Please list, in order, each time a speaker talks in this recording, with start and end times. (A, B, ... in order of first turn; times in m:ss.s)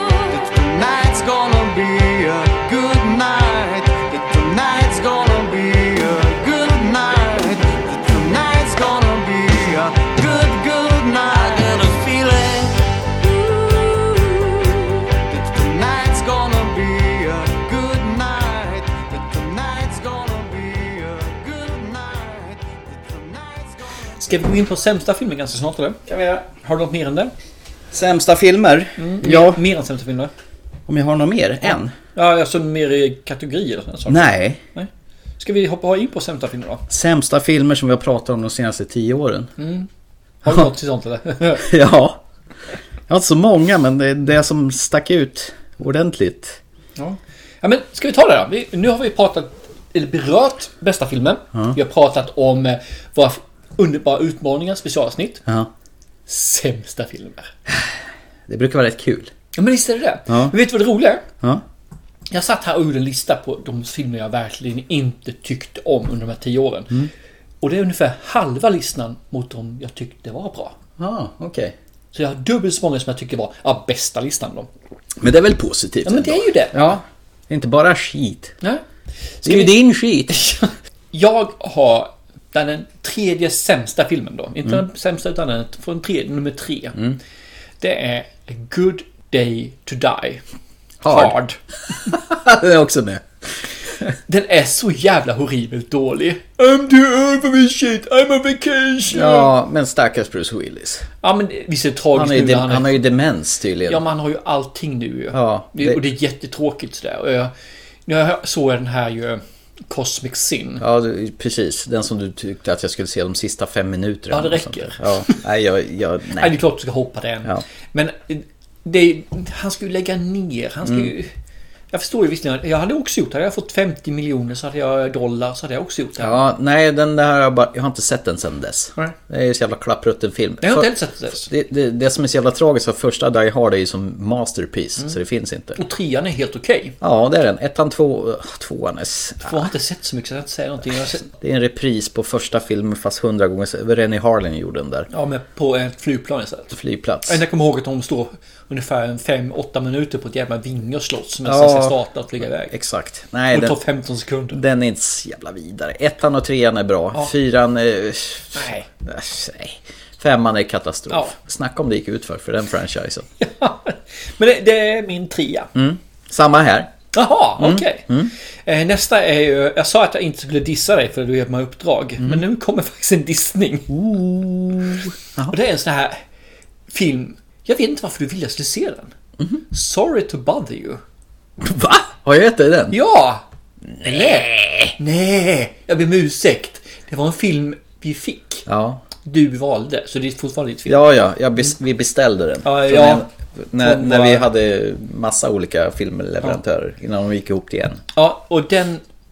0:00.3-0:23.9 A
0:24.2-0:27.3 B
0:26.1-0:26.5 C
0:27.9-0:29.6 C
0:29.0-0:30.3 B
0:30.9-0:31.9 C
0:32.2-0:34.9 B
0:34.1-0:34.6 C
0:35.4-0:36.8 B
0:36.9-0:39.5 C
0:39.6-0:39.9 B
0:40.4-0:41.7 B
0:41.6-0:42.2 C
0:43.1-0:46.6 C
0:47.0-0:55.4 B
0:55.5-0:55.7 C
0:56.3-0:57.5 B
0:57.7-0:59.3 C
0:59.6-1:01.3 B
1:00.3-1:00.6 C
1:02.3-1:07.1 B
1:07.6-1:10.8 B
1:11.0-1:11.8 C
1:12.1-1:14.7 B
1:15.2-1:18.5 C
1:16.0-1:16.9 B
1:19.4-1:19.8 B
1:19.4-1:20.4 C
1:20.3-1:27.0 B
1:27.8-1:30.4 B
1:31.0-1:31.4 C
1:31.1-1:31.6 B
1:32.1-1:33.3 C
1:34.1-1:39.5 B
1:39.1-1:41.1 C
1:41.2-1:43.0 B
1:42.1-1:44.0 C
1:43.9-1:47.5 B
1:45.3-1:46.0 C
1:48.1-1:50.8 B
1:50.8-1:56.6 C
1:54.3-1:55.4 B
1:56.4-2:01.3 B
2:00.8-2:01.1 C
2:01.9-2:06.4 B
2:06.2-2:15.8 C
2:10.6-2:11.5 B
2:15.8-2:17.0 B
2:17.0-2:19.7 C
2:19.4-2:21.3 B
2:21.3-2:25.1 C
2:25.1-2:26.7 B
2:26.7-2:27.4 C
2:27.3-2:32.7 B
2:31.4-2:32.0 C
2:32.7-2:33.8 C
2:33.5-2:34.6 B
2:34.5-2:43.3 C
2:38.6-2:38.9 B
2:41.1-2:41.3 B
2:43.4-2:45.7 B
2:45.8-2:47.0 C
2:47.1-2:48.1 B
2:47.6-2:48.3 C
2:48.7-2:54.0 B
2:53.9-2:55.6 C
2:55.5-2:56.2 B
2:56.9-2:59.1 B
2:59.7-3:01.0 B
3:01.6-3:03.0 C
3:02.9-3:03.4 B
3:04.0-3:04.9 C
3:04.0-3:08.7 B
3:08.7-3:09.0 C
3:09.2-3:11.0 B
3:10.9-3:18.0 C
3:12.6-3:13.3 B
3:13.8-3:14.5 B
3:18.2-3:19.0 B